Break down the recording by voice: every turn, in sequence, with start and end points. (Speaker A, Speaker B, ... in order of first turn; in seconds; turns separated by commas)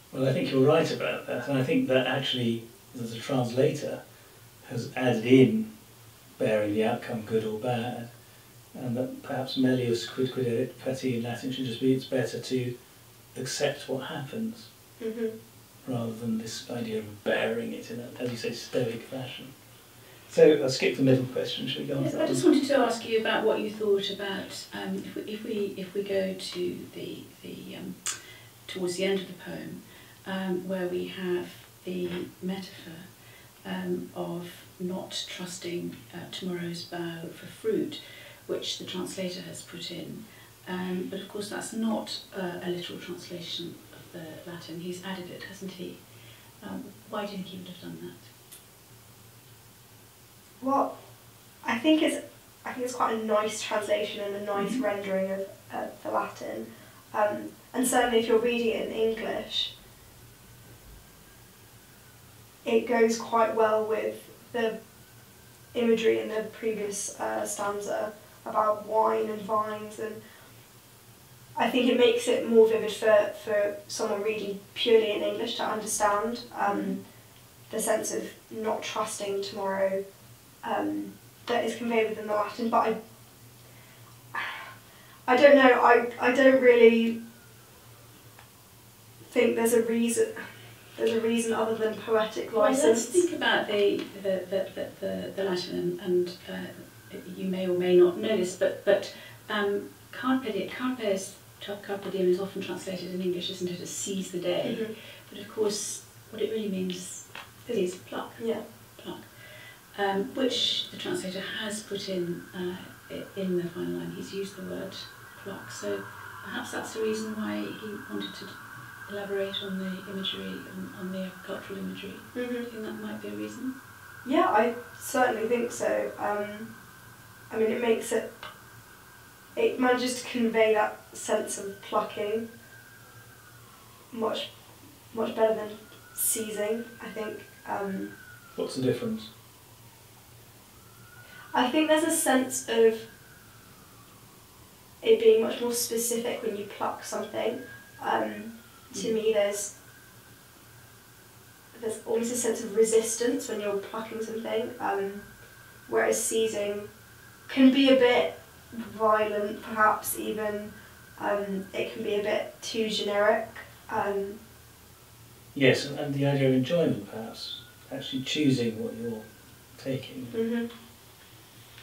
Speaker A: 0.1-4.0, Speaker A: 4.6-5.7, Speaker A: 6.4-8.1, Speaker A: 8.7-12.7, Speaker A: 13.3-14.7, Speaker B: 15.0-15.4, Speaker A: 15.8-19.5, Speaker A: 20.3-22.4, Speaker C: 22.0-33.1, Speaker C: 33.6-46.0, Speaker C: 46.6-48.3, Speaker B: 50.6-50.9, Speaker B: 51.6-59.7, Speaker B: 62.6-64.8, Speaker B: 65.7-70.2, Speaker B: 71.6-77.0, Speaker C: 76.7-77.0, Speaker B: 77.7-80.0, Speaker B: 80.6-83.0, Speaker B: 84.3-84.6, Speaker B: 85.3-87.2, Speaker B: 89.3-90.4, Speaker B: 91.0-93.2, Speaker C: 92.5-123.8, Speaker B: 104.6-104.9, Speaker B: 108.4-108.6, Speaker B: 122.3-122.7, Speaker B: 124.2-126.7, Speaker B: 127.5-128.3, Speaker B: 129.6-132.5, Speaker B: 134.1-134.5, Speaker B: 135.1-138.1, Speaker A: 138.6-139.3, Speaker B: 141.5-143.1, Speaker B: 145.0-149.7, Speaker B: 151.7-155.3, Speaker B: 155.9-156.9, Speaker B: 157.5-164.4, Speaker A: 165.5-170.4, Speaker B: 170.3-170.7